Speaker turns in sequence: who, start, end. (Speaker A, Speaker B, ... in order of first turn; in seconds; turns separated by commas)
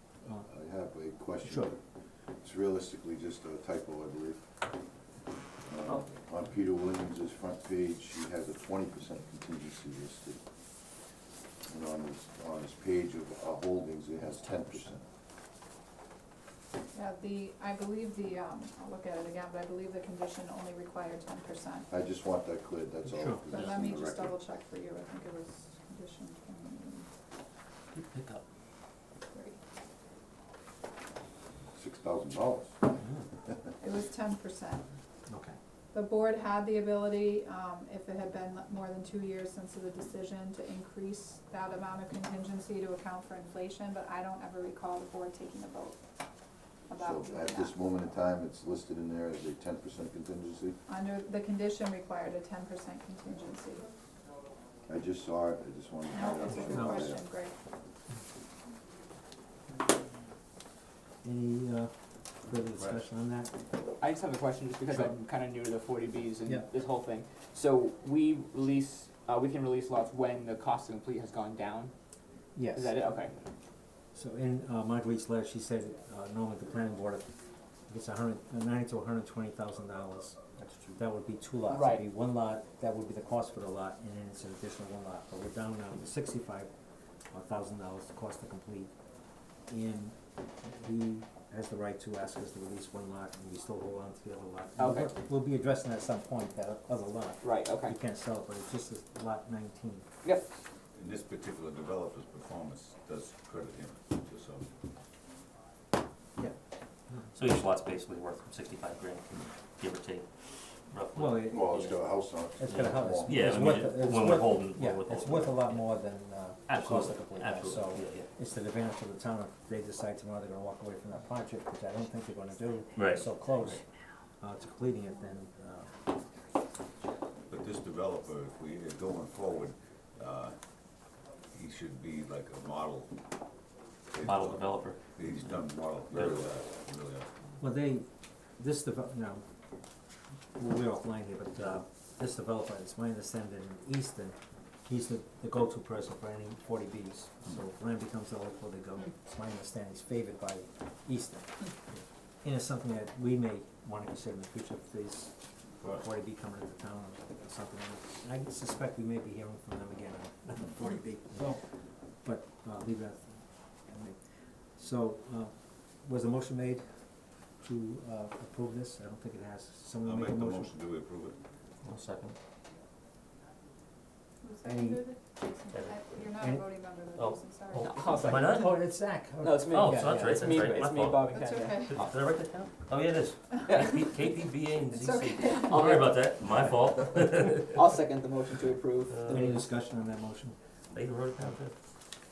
Speaker A: 0.2-1.8, Speaker B: 1.4-1.7, Speaker A: 2.4-4.4, Speaker A: 5.7-10.4, Speaker A: 11.7-15.0, Speaker B: 14.5-14.7, Speaker C: 16.9-21.9, Speaker A: 21.9-24.4, Speaker B: 23.1-23.4, Speaker C: 23.5-27.1, Speaker D: 27.9-28.4, Speaker C: 29.3-29.6, Speaker A: 31.8-32.8, Speaker C: 33.8-34.8, Speaker B: 35.3-35.6, Speaker C: 35.9-46.0, Speaker C: 46.9-47.7, Speaker A: 47.0-50.8, Speaker C: 50.9-53.9, Speaker A: 54.9-57.2, Speaker C: 56.1-57.5, Speaker B: 56.7-57.0, Speaker B: 61.2-61.9, Speaker B: 62.4-63.6, Speaker E: 62.7-63.0, Speaker F: 64.0-71.9, Speaker B: 72.5-72.9, Speaker F: 72.7-73.3, Speaker B: 74.1-80.4, Speaker B: 81.0-86.7, Speaker F: 81.7-82.0, Speaker B: 87.3-88.9, Speaker B: 89.7-100.0, Speaker F: 94.8-95.2, Speaker F: 97.4-98.0, Speaker E: 100.9-104.7, Speaker D: 107.3-110.3, Speaker D: 110.8-112.0, Speaker B: 111.2-111.7, Speaker A: 111.5-113.5, Speaker B: 112.6-123.8, Speaker D: 112.7-115.9, Speaker D: 116.7-118.3, Speaker D: 123.0-123.3, Speaker B: 124.4-125.9, Speaker E: 127.5-130.6, Speaker E: 131.5-133.1, Speaker E: 134.1-137.3, Speaker D: 134.2-135.0, Speaker D: 136.1-136.4, Speaker B: 137.6-139.4, Speaker B: 140.5-151.7, Speaker B: 152.4-164.2, Speaker B: 164.7-167.1, Speaker B: 167.6-170.7, Speaker E: 170.0-171.4, Speaker D: 171.8-172.3, Speaker C: 174.4-178.0, Speaker B: 174.7-175.0, Speaker D: 175.7-176.0, Speaker D: 177.2-178.8, Speaker F: 177.8-178.6, Speaker B: 178.1-180.7, Speaker F: 179.4-181.7, Speaker D: 179.7-187.8, Speaker C: 181.2-182.0, Speaker C: 184.9-185.9, Speaker F: 187.7-189.5, Speaker D: 189.1-189.6, Speaker B: 189.3-190.6, Speaker D: 190.9-191.7